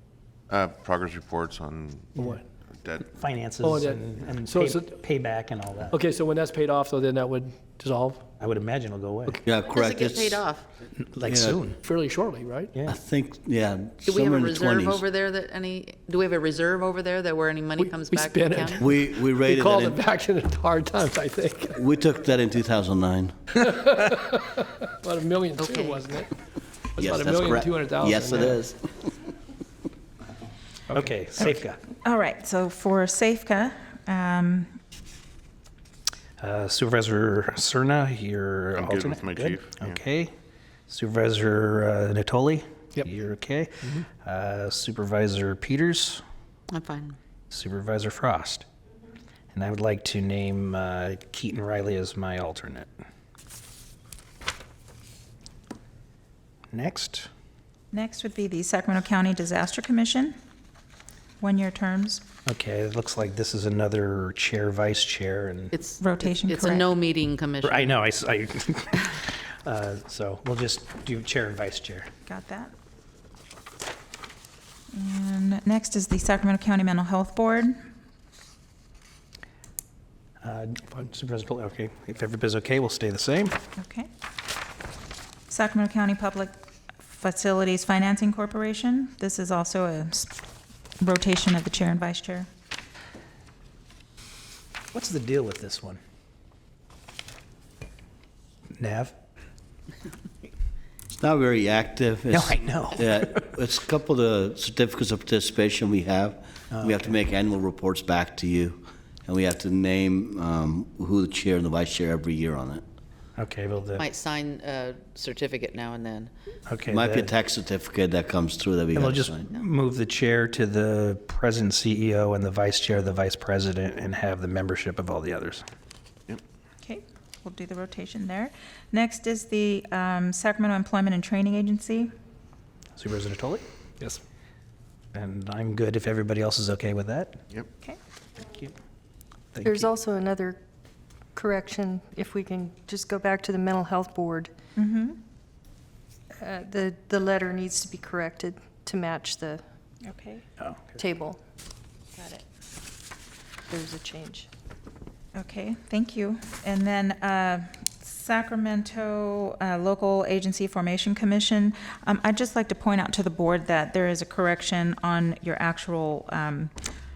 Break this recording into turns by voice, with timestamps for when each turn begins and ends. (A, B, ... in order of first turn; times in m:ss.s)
0:00.5-0:03.1 A
0:02.2-0:02.4 B
0:03.1-0:06.0 C
0:03.6-0:04.9 B
0:05.9-0:08.2 B
0:08.4-0:09.4 C
0:09.4-0:10.5 D
0:09.6-0:10.6 E
0:10.9-0:11.8 C
0:11.3-0:11.6 D
0:11.8-0:12.7 B
0:12.8-0:15.0 D
0:14.0-0:18.9 E
0:17.8-0:21.8 B
0:18.8-0:20.0 D
0:21.7-0:23.5 D
0:23.6-0:26.3 B
0:25.6-0:26.2 E
0:27.0-0:28.6 B
0:27.0-0:29.3 D
0:30.9-0:31.8 C
0:32.0-0:34.8 F
0:36.4-0:40.3 C
0:38.7-0:40.0 A
0:40.9-0:46.2 C
0:46.7-0:47.2 E
0:47.5-0:48.6 C
0:49.5-0:52.9 C
0:56.7-0:57.3 C
0:57.9-1:00.4 F
1:01.4-1:02.2 F
1:02.4-1:05.7 C
1:05.7-1:07.9 E
1:06.0-1:06.9 F
1:07.6-1:12.1 C
1:12.3-1:12.7 F
1:14.9-1:17.8 F
1:20.4-1:23.6 C
1:23.8-1:24.1 F
1:25.5-1:26.5 F
1:27.0-1:30.3 F
1:31.0-1:32.5 F
1:34.9-1:36.0 C
1:38.8-1:39.1 C
1:41.1-1:52.8 D
1:42.3-1:43.6 C
1:46.7-1:47.2 C
1:53.4-1:54.1 C
1:54.0-1:56.3 E
1:56.7-1:57.3 C
1:56.9-1:59.4 D
1:58.9-2:05.6 C
2:06.8-2:12.1 F
2:13.0-2:13.6 C
2:15.1-2:17.4 C
2:18.4-2:18.7 C
2:19.5-2:19.9 C
2:19.6-2:20.6 G
2:21.3-2:24.5 G
2:24.8-2:25.2 F
2:26.4-2:29.6 G
2:30.0-2:30.4 F
2:31.0-2:31.4 G
2:33.7-2:34.5 G
2:35.3-2:46.7 F